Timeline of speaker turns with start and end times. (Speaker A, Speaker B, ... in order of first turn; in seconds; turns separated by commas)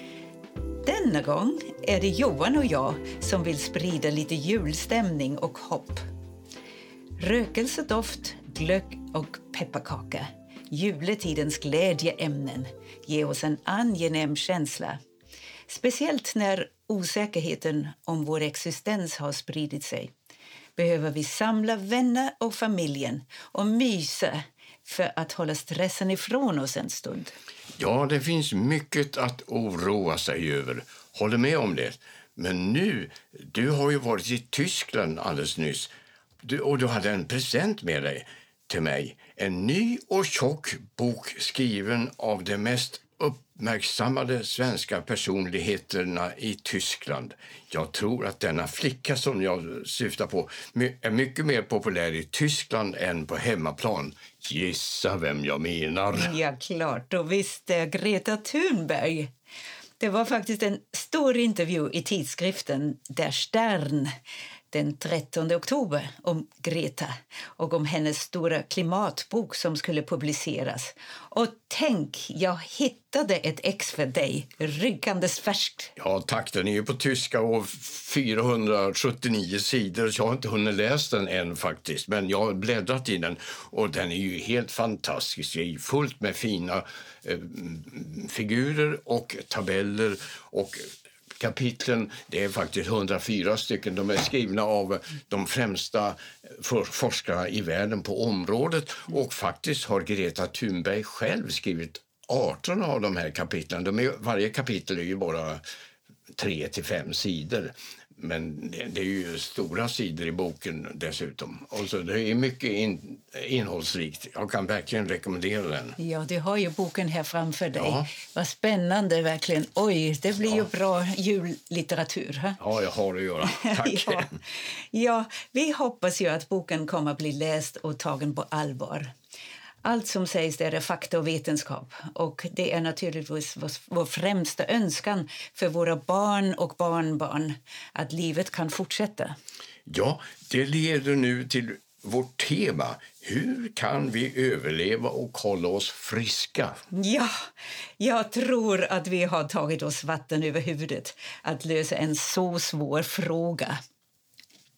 Speaker A: 0.8-6.0, Speaker A: 7.2-15.0, Speaker A: 15.7-20.1, Speaker A: 20.8-27.3, Speaker B: 27.8-35.9, Speaker B: 36.4-56.4, Speaker A: 56.1-59.3, Speaker A: 60.0-64.1, Speaker A: 64.7-75.9, Speaker B: 76.0-105.6, Speaker B: 106.3-116.0, Speaker A: 116.0-122.6, Speaker B: 117.8-118.1, Speaker B: 122.6-124.4, Speaker A: 123.5-129.1, Speaker A: 129.8-139.4, Speaker B: 139.9-146.8, Speaker A: 146.9-147.5, Speaker A: 148.0-153.8